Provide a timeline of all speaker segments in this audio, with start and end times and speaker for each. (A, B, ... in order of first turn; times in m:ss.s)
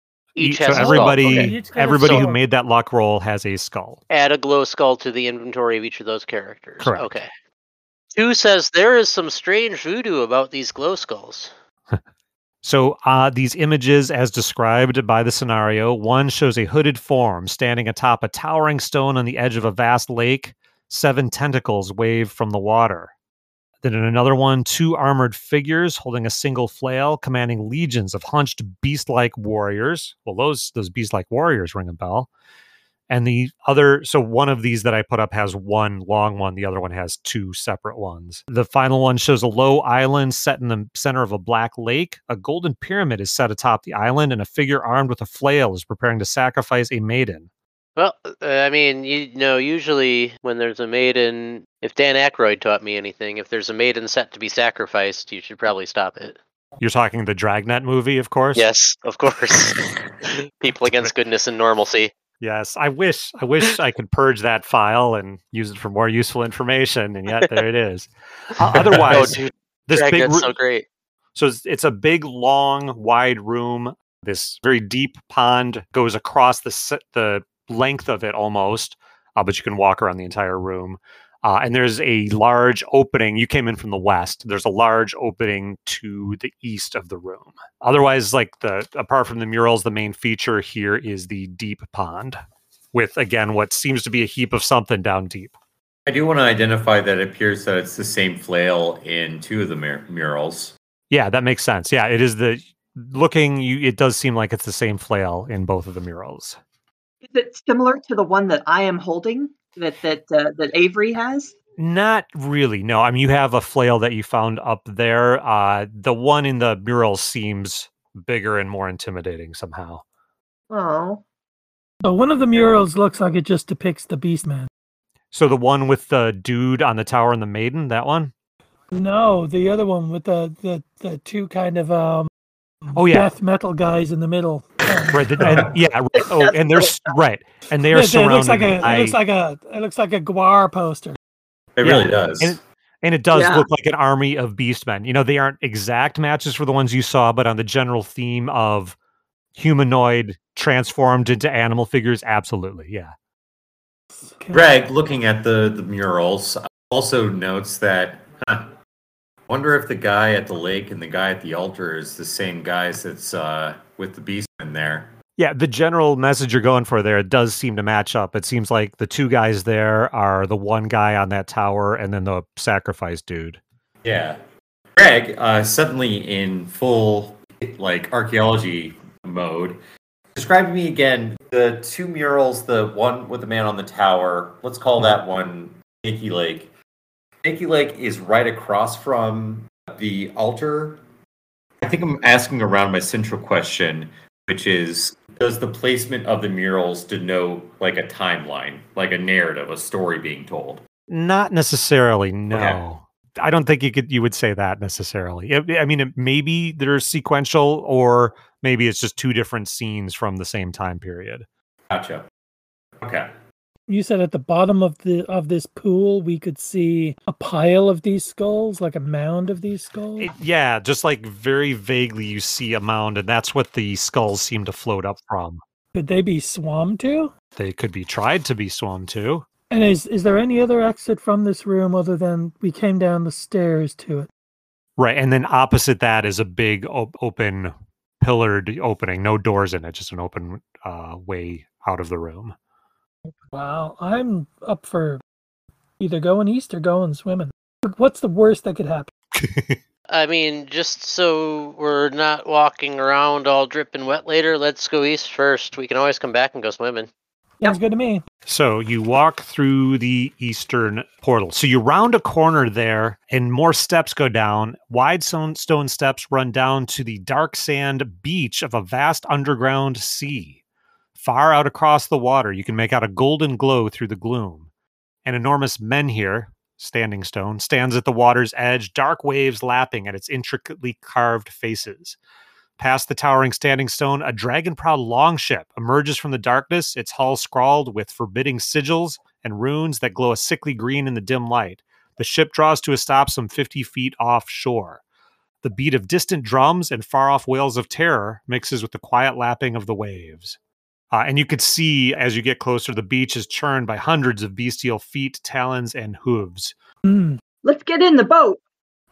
0:00.4-0:02.2 A
0:00.4-0:04.0 B
0:00.6-0:02.4 C
0:04.1-0:07.3 A
0:06.8-0:07.1 B
0:08.1-0:11.5 A
0:12.6-0:23.1 B
0:23.8-0:32.3 B
0:33.1-0:47.5 B
0:48.0-0:56.4 A
0:56.8-0:58.6 B
0:58.6-1:02.1 A
1:02.4-1:10.5 B
1:08.9-1:10.8 A
1:11.3-1:32.4 B
1:32.9-1:35.6 B
1:36.0-1:40.8 D
1:41.1-1:46.6 B
1:47.2-1:51.5 E
1:51.8-2:00.0 B
2:00.7-2:01.2 E
2:02.0-2:04.7 C
2:05.3-2:08.3 B
2:08.9-2:12.3 C
2:12.8-2:15.7 C
2:12.9-2:13.3 B
2:15.1-2:19.2 B
2:15.4-2:15.7 D
2:16.2-2:17.0 E
2:17.9-2:21.2 C
2:21.8-2:22.6 D
2:21.8-2:29.0 B
2:23.3-2:23.7 E
2:29.5-2:33.1 B
2:34.2-2:34.6 C
2:34.5-2:38.7 D
2:39.5-2:45.1 D
2:45.4-2:53.6 B
2:54.0-2:54.4 D
2:55.0-2:59.8 D
3:00.3-3:06.7 D
3:07.4-3:11.0 D
3:11.8-3:20.8 D
3:21.1-3:31.4 B
3:22.5-3:22.8 D
3:31.9-3:32.3 D
3:33.0-3:33.3 D
3:33.9-3:40.3 C
3:40.2-3:45.6 B
3:45.9-3:47.3 C
3:47.6-3:49.4 B
3:49.7-3:54.3 C
3:55.0-4:02.5 B
4:03.5-4:05.2 C
4:06.0-4:09.1 C
4:09.3-4:09.8 B
4:10.1-4:17.1 A
4:17.6-4:18.2 C
4:18.4-4:30.6 B
4:31.2-4:34.7 B
4:35.2-4:42.2 B
4:42.8-4:55.0 B
4:55.6-5:00.6 B
5:01.1-5:06.7 B
5:07.0-5:07.4 C
5:07.6-5:08.6 E